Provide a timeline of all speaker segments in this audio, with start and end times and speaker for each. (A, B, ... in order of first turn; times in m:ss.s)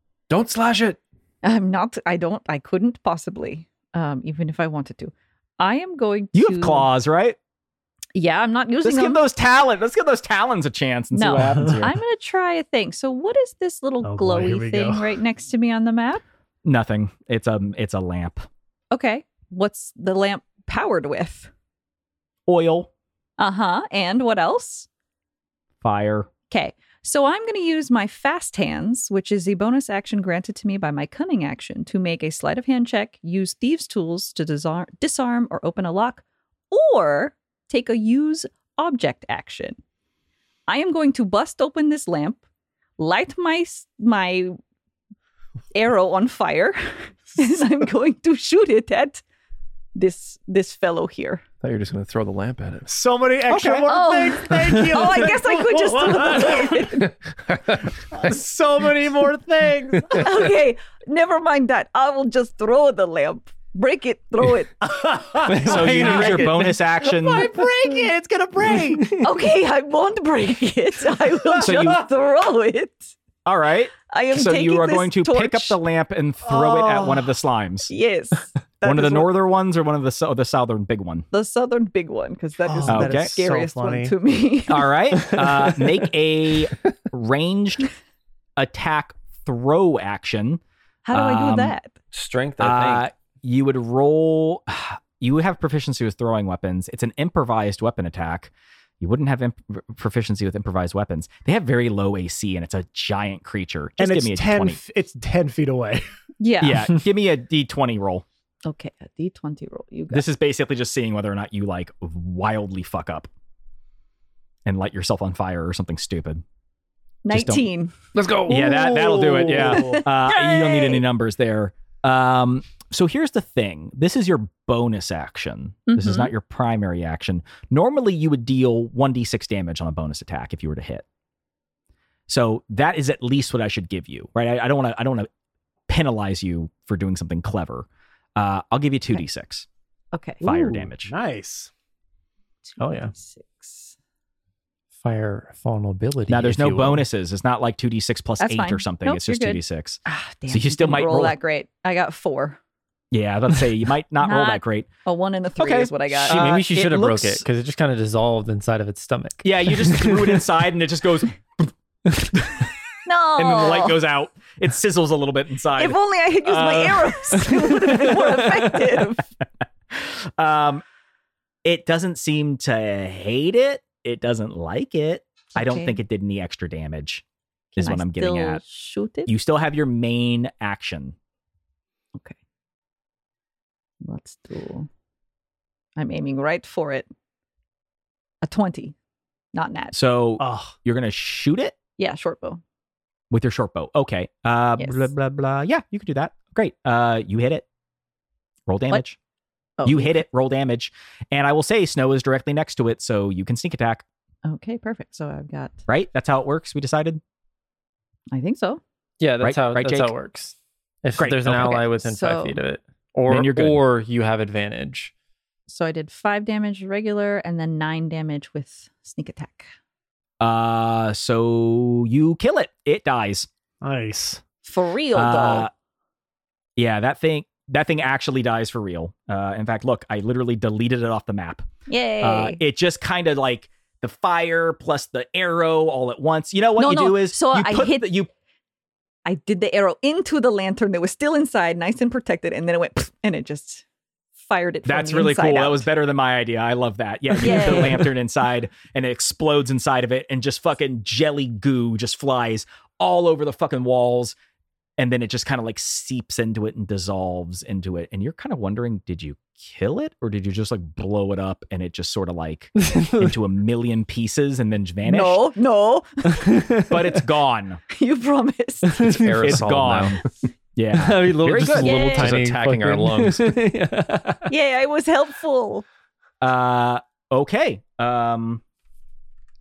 0:00.3-0:01.0 A
0:01.4-0:06.9 B
0:06.3-0:07.4 C
0:08.2-0:09.2 B
0:08.8-0:12.0 C
0:11.1-0:16.2 B
0:14.0-0:15.1 D
0:16.6-0:18.4 C
0:18.9-0:21.5 B
0:22.5-0:22.9 C
0:23.4-0:24.9 B
0:25.8-0:26.3 C
0:26.5-0:39.8 B
0:40.7-0:42.4 B
0:43.0-0:44.6 B
0:45.7-0:49.2 B
0:50.0-0:51.4 B
0:51.6-0:53.0 A
0:52.9-0:56.9 D
0:53.5-0:53.9 C
0:53.9-0:57.1 B
0:57.0-0:58.4 A
0:58.1-1:00.3 D
1:00.0-1:00.2 A
1:00.1-1:04.8 B
1:04.8-1:09.1 D
1:05.4-1:06.8 E
1:05.6-1:07.5 C
1:08.9-1:09.2 E
1:09.2-1:13.1 B
1:11.6-1:12.0 C
1:13.4-1:17.9 C
1:14.1-1:15.8 B
1:16.4-1:17.3 D
1:17.9-1:18.5 B
1:18.8-1:19.3 D
1:18.8-1:21.3 C
1:21.3-1:24.9 B
1:22.6-1:24.2 D
1:22.9-1:23.4 C
1:24.7-1:27.8 C
1:25.3-1:25.7 E
1:28.6-1:30.6 C
1:31.0-1:32.0 B
1:31.1-1:31.8 C
1:32.1-1:33.1 E
1:32.6-1:44.8 C
1:44.0-1:46.0 D
1:46.4-1:46.9 B
1:46.6-1:48.2 C
1:48.6-1:50.3 B
1:50.1-1:53.3 C
1:54.7-1:56.4 C
1:57.2-1:57.9 B
1:57.3-1:57.6 C
1:58.2-1:59.4 A
1:58.5-2:11.0 C
1:58.5-2:00.0 D
1:59.7-2:01.0 B
2:05.9-2:06.3 B
2:12.3-2:15.3 C
2:15.9-2:17.9 C
2:18.4-2:19.7 C
2:20.1-2:20.9 B
2:20.4-2:21.1 C
2:21.0-2:21.7 D
2:22.6-2:24.0 B
2:22.8-2:23.1 E
2:25.0-2:27.0 E
2:26.3-2:31.4 C
2:28.4-2:32.6 B
2:33.1-2:34.9 C
2:34.2-2:36.5 B
2:35.6-2:37.4 C
2:36.2-2:40.4 E
2:39.4-2:41.7 C
2:42.4-2:42.6 C
2:43.1-2:44.0 B
2:43.4-2:47.2 C
2:45.8-2:49.3 B
2:47.4-2:49.0 E
2:49.9-2:50.8 C
2:51.6-2:58.6 C
2:55.6-2:56.0 B
2:57.8-2:59.3 B
2:59.3-3:01.2 C
3:04.0-3:04.9 B
3:06.0-3:07.1 B
3:08.4-3:09.0 B
3:09.5-3:09.9 B
3:09.9-3:11.8 C
3:10.4-3:10.8 D
3:12.0-3:12.6 B
3:13.3-3:17.6 C
3:14.8-3:15.1 B
3:18.7-3:19.2 C
3:19.8-3:20.2 B
3:19.9-3:24.0 C
3:24.4-3:25.8 B
3:25.9-3:27.2 C
3:28.3-3:28.8 B
3:29.2-3:35.1 E
3:29.4-3:30.1 C
3:31.2-3:31.8 C
3:31.5-3:32.6 B
3:33.3-3:33.8 C
3:35.7-3:39.7 B
3:40.4-3:43.5 C
3:43.8-3:44.4 D
3:44.6-3:45.7 B
3:45.1-3:45.7 C
3:46.8-3:51.7 C
3:51.9-3:52.6 B
3:52.2-3:58.3 C
3:56.8-3:58.1 B
3:59.2-4:03.8 B
4:04.4-4:05.9 B
4:04.9-4:14.4 C
4:07.4-4:08.1 B
4:15.0-4:25.4 C
4:22.8-4:23.4 E
4:25.0-4:26.5 B
4:26.4-4:27.0 E
4:26.9-4:27.8 C
4:27.9-4:29.3 B
4:28.8-4:29.5 E
4:29.0-4:30.3 A
4:29.4-4:30.2 C
4:30.8-4:32.0 C
4:30.9-4:34.5 E
4:31.8-4:32.4 B
4:31.8-4:33.6 A
4:34.5-4:35.8 B
4:36.4-4:38.6 C